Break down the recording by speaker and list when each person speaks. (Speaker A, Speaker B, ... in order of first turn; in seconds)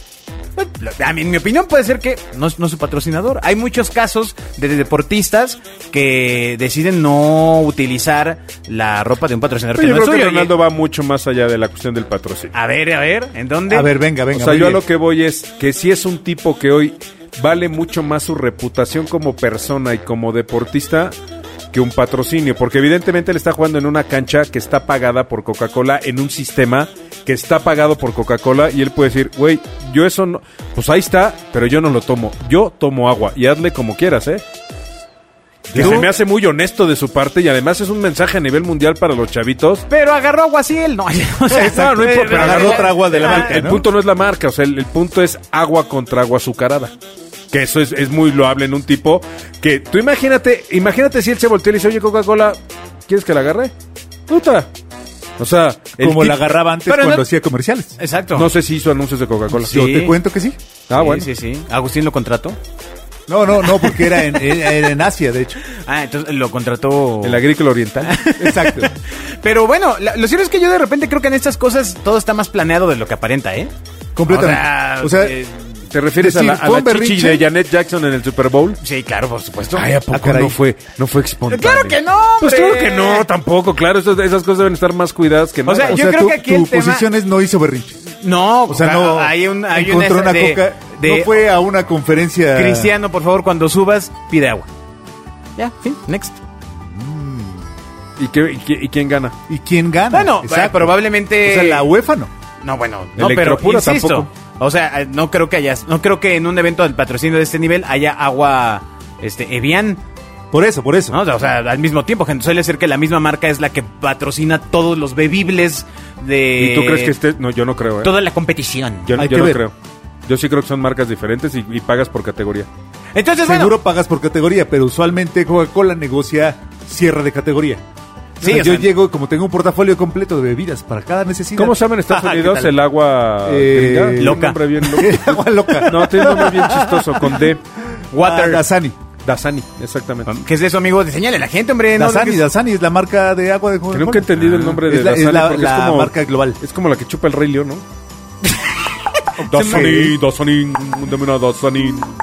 Speaker A: 0.6-10.5, 12.5-13.9, 35.8-36.1, 39.9-43.7, 56.9-57.3, 58.0-58.5, 59.5-60.2, 60.9-62.6, 63.7-64.9, 65.7-67.5, 68.0-73.7, 74.3-75.7, 78.8-79.9, 81.5-83.3, 85.7-87.1, 88.2-91.5, 92.5-94.7, 95.6-96.4, 100.1-101.9, 102.6-110.0, 111.1-117.2, 118.0-119.2, 123.2-123.8, 128.4-128.9, 134.2-135.0, 138.1-138.6, 140.3-142.4, 149.5-150.0
Speaker B: 9.8-12.5, 14.3-21.1, 21.7-34.4, 35.8-39.9, 41.6-46.9, 47.5-53.7, 54.3-54.7, 55.4-56.4, 58.4-59.8, 60.9-61.3, 67.2-68.3, 75.9-78.8, 79.7-86.0, 98.2-99.3, 103.2-104.3, 116.6-118.1, 119.1-119.7, 120.3-122.7, 131.6-137.6, 139.2-140.3, 143.9-147.8, 149.5-152.1
Speaker C: 13.7-14.8, 35.7-36.1, 41.5-43.9, 56.0-58.0, 59.6-60.6, 63.3-65.6, 68.3-68.9, 74.2-75.4, 76.2-77.5, 80.1-80.6, 85.9-88.0, 88.7-92.9, 96.7-97.6, 99.5-102.3, 110.5-111.2, 119.2-119.6, 123.4-127.8, 128.4-132.7, 133.4-137.5, 138.1-139.0, 142.0-146.6, 149.4-150.2